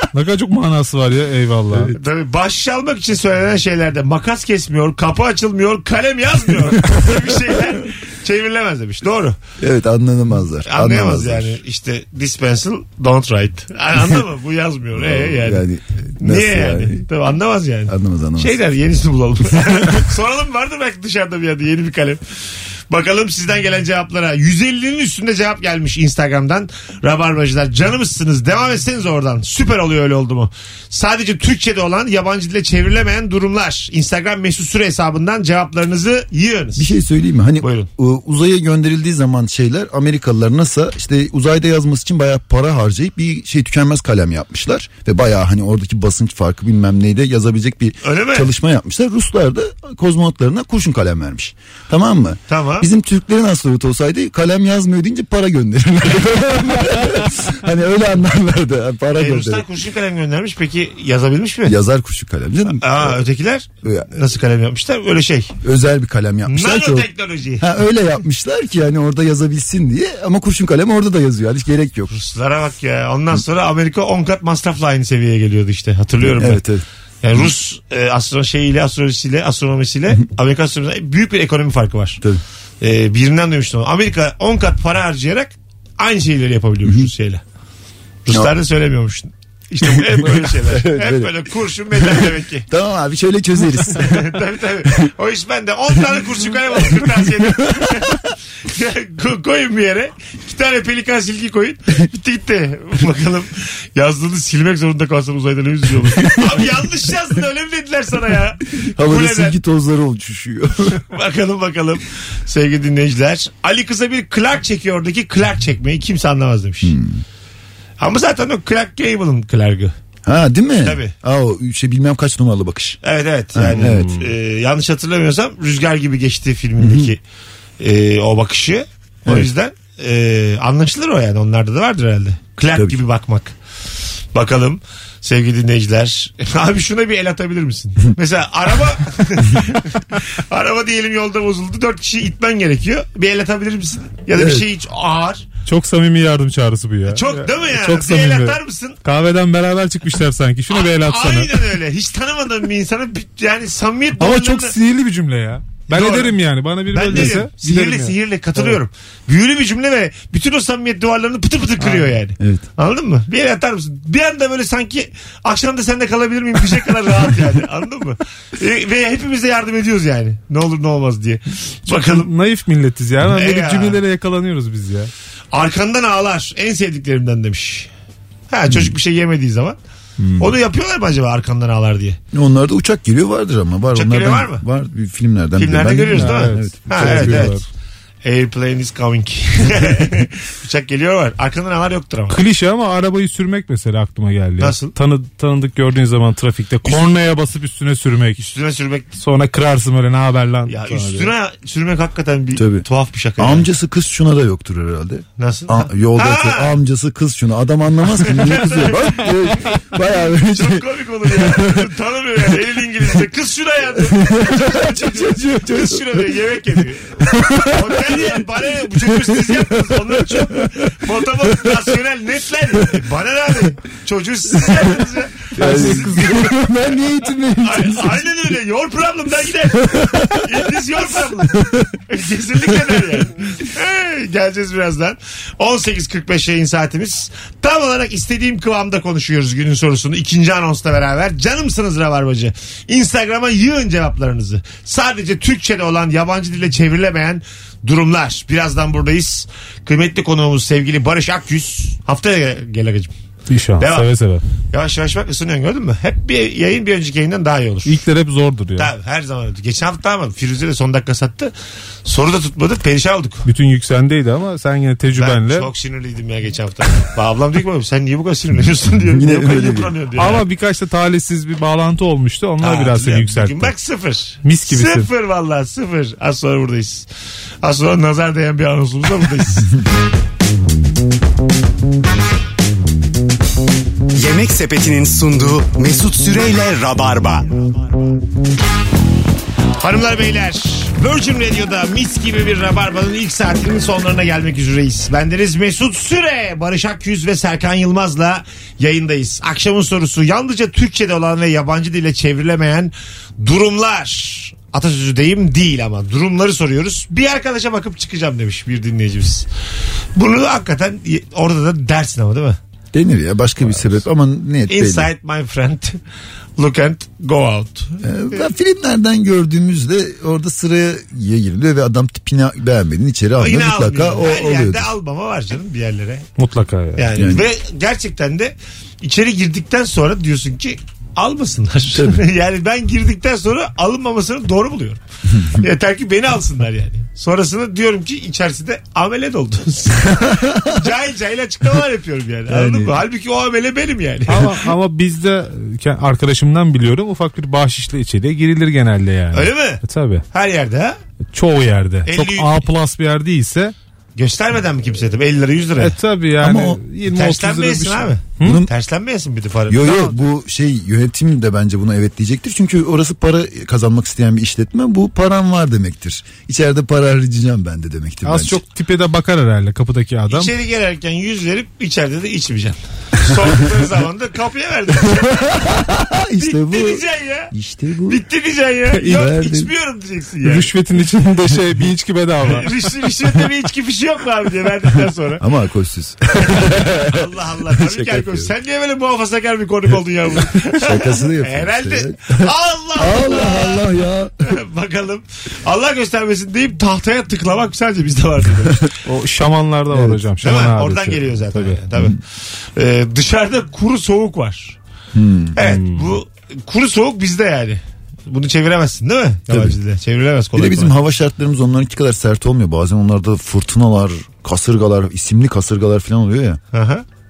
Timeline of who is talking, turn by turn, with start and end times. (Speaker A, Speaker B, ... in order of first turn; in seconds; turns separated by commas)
Speaker A: 0.1-1.9, Speaker B: 1.9-9.4, Speaker C: 9.6-11.6, Speaker B: 10.7-15.7, Speaker C: 14.9-17.1, Speaker B: 16.2-22.2, Speaker C: 17.9-18.6, Speaker B: 22.9-37.0, Speaker C: 36.8-59.6, Speaker B: 37.6-37.9, Speaker B: 48.0-48.5, Speaker B: 52.5-52.9, Speaker B: 59.1-61.8, Speaker C: 61.7-63.2, Speaker B: 62.7-65.5, Speaker C: 63.8-64.1, Speaker C: 65.6-72.1, Speaker B: 66.5-67.7, Speaker B: 72.1-76.6, Speaker C: 76.2-76.8, Speaker B: 77.2-82.2, Speaker B: 82.8-87.4, Speaker B: 88.2-92.7, Speaker C: 89.8-94.3, Speaker B: 94.0-109.6, Speaker C: 96.8-98.2, Speaker C: 106.2-106.7, Speaker C: 108.8-111.0, Speaker B: 111.0-117.0, Speaker C: 116.8-117.2, Speaker B: 118.0-119.9, Speaker C: 120.2-123.0, Speaker B: 120.8-121.1, Speaker B: 123.0-127.2, Speaker C: 123.5-124.2, Speaker A: 123.8-124.1, Speaker C: 126.8-127.1, Speaker B: 127.8-133.6, Speaker C: 132.7-133.0, Speaker B: 134.3-145.4, Speaker C: 144.3-144.7, Speaker A: 145.7-151.7, Speaker B: 147.1-149.0, Speaker B: 150.7-154.8, Speaker A: 154.2-158.7, Speaker B: 155.9-156.4, Speaker B: 156.9-172.3, Speaker C: 157.1-157.4, Speaker C: 162.4-162.7, Speaker A: 171.9-175.1, Speaker B: 173.2-174.0, Speaker B: 175.5-177.9, Speaker B: 178.5-179.8, Speaker C: 180.2-180.5, Speaker B: 180.4-182.2, Speaker C: 182.3-187.6, Speaker B: 183.9-184.7, Speaker B: 185.6-187.6, Speaker A: 186.2-187.7, Speaker B: 188.2-192.4, Speaker A: 192.3-198.4, Speaker B: 194.6-194.9, Speaker B: 198.4-199.1, Speaker A: 199.2-201.3, Speaker B: 200.7-203.7, Speaker C: 202.5-202.9, Speaker C: 203.4-211.9, Speaker B: 205.4-206.8, Speaker B: 208.2-209.8, Speaker B: 210.5-226.1, Speaker C: 214.1-216.5, Speaker C: 217.2-218.4, Speaker C: 218.9-220.9, Speaker A: 225.6-227.3, Speaker C: 225.6-228.1, Speaker B: 227.6-253.1, Speaker C: 230.0-230.3, Speaker A: 253.5-254.4, Speaker B: 253.8-254.1, Speaker B: 254.7-258.0, Speaker A: 257.9-258.9, Speaker B: 258.8-261.5, Speaker B: 262.1-263.4, Speaker A: 263.4-265.7, Speaker B: 265.1-270.4, Speaker C: 269.1-269.9, Speaker A: 270.2-273.7, Speaker B: 272.6-277.1, Speaker A: 274.4-275.1, Speaker B: 277.6-279.7, Speaker D: 284.1-287.5, Speaker B: 289.8-309.5, Speaker B: 310.2-312.6, Speaker C: 312.9-315.1, Speaker B: 314.7-316.0, Speaker B: 316.6-318.4, Speaker C: 318.0-324.9, Speaker B: 323.4-326.3, Speaker A: 326.4-327.1, Speaker B: 327.0-344.6, Speaker C: 327.1-327.5, Speaker C: 331.9-332.2, Speaker C: 335.3-335.6, Speaker C: 342.5-343.0, Speaker A: 344.3-350.3, Speaker B: 349.3-349.8, Speaker B: 350.3-351.0, Speaker A: 351.3-353.7, Speaker B: 352.1-352.5, Speaker B: 354.2-356.0, Speaker A: 355.8-358.7, Speaker C: 356.4-356.8, Speaker B: 357.1-360.1, Speaker C: 358.4-358.7, Speaker C: 359.7-368.6, Speaker A: 368.2-370.5, Speaker B: 370.3-377.5, Speaker C: 373.2-373.6, Speaker C: 375.3-378.2, Speaker B: 378.1-380.7, Speaker C: 378.9-379.7, Speaker A: 380.4-382.7, Speaker B: 382.4-385.4, Speaker C: 385.4-388.5, Speaker B: 386.4-393.9, Speaker C: 390.7-394.3, Speaker B: 394.4-399.0, Speaker A: 399.1-401.8, Speaker C: 399.9-400.2, Speaker B: 400.4-404.8, Speaker C: 405.1-405.6, Speaker B: 405.6-410.9, Speaker A: 405.6-406.2, Speaker C: 409.5-409.8, Speaker C: 410.6-416.6, Speaker B: 416.7-417.1